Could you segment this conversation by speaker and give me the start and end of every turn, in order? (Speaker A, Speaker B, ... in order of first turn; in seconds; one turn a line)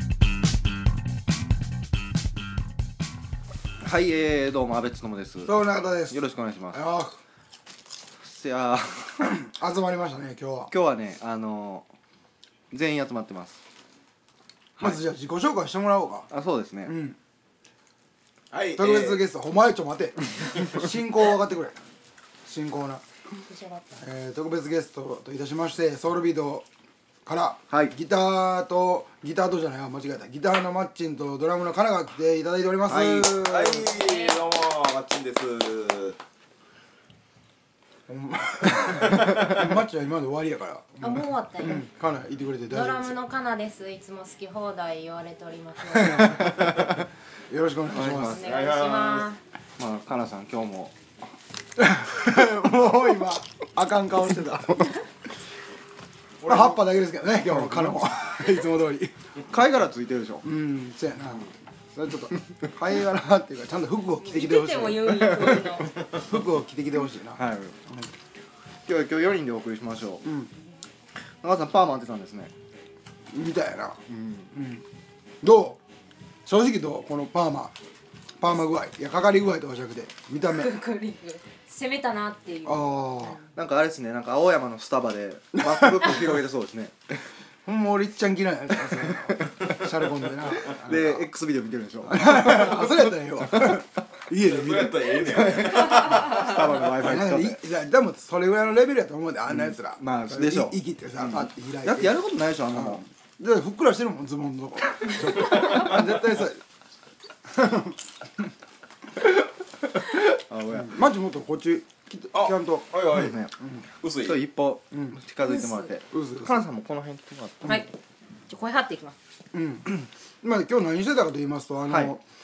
Speaker A: 3.8-6.8
Speaker B: 5.5-6.2
Speaker B: 6.7-7.2
Speaker A: 8.2-9.3
Speaker B: 9.2-10.7
Speaker A: 10.7-11.9
Speaker A: 12.7-13.6
Speaker B: 14.8-16.3
Speaker A: 16.3-16.9
Speaker B: 16.9-17.2
Speaker C: 18.5-19.2
Speaker B: 18.8-21.8
Speaker B: 22.4-23.0
Speaker D: 23.5-24.0
Speaker B: 24.0-26.6
Speaker B: 27.2-33.9
Speaker A: 32.9-33.3
Speaker C: 33.3-36.2
Speaker D: 33.9-34.4
Speaker B: 38.1-43.2
Speaker D: 41.0-41.8
Speaker D: 42.7-46.6
Speaker B: 46.0-46.9
Speaker B: 47.5-48.4
Speaker A: 47.9-48.4
Speaker D: 48.0-49.4
Speaker C: 48.3-49.3
Speaker A: 49.8-51.0
Speaker B: 51.8-55.0
Speaker C: 56.4-56.8
Speaker B: 56.5-59.1
Speaker A: 57.4-58.0
Speaker A: 59.5-60.5
Speaker B: 60.4-68.1
Speaker D: 64.2-66.0
Speaker A: 67.3-67.8
Speaker A: 68.8-70.2
Speaker B: 70.2-70.5
Speaker A: 71.4-72.5
Speaker B: 73.3-74.0
Speaker A: 74.1-74.5
Speaker B: 74.5-74.8
Speaker B: 75.4-75.8
Speaker B: 76.5-77.7
Speaker B: 78.4-80.7
Speaker D: 80.4-83.5
Speaker B: 82.6-83.4
Speaker A: 83.5-87.2
Speaker B: 85.6-86.2
Speaker B: 87.6-91.3
Speaker A: 88.9-89.7
Speaker A: 90.5-93.8
Speaker B: 92.0-95.6
Speaker C: 94.3-96.7
Speaker A: 95.2-97.6
Speaker B: 97.0-102.2
Speaker A: 99.5-103.0
Speaker B: 102.7-106.6
Speaker B: 107.6-107.9
Speaker A: 110.2-111.0
Speaker B: 110.7-112.9
Speaker C: 112.3-113.4
Speaker A: 113.1-113.5
Speaker C: 114.0-114.4
Speaker A: 114.1-117.8
Speaker B: 114.9-115.2
Speaker D: 115.4-115.9
Speaker B: 116.1-116.6
Speaker D: 117.6-117.9
Speaker D: 118.5-119.2
Speaker B: 119.5-122.2
Speaker A: 121.8-122.1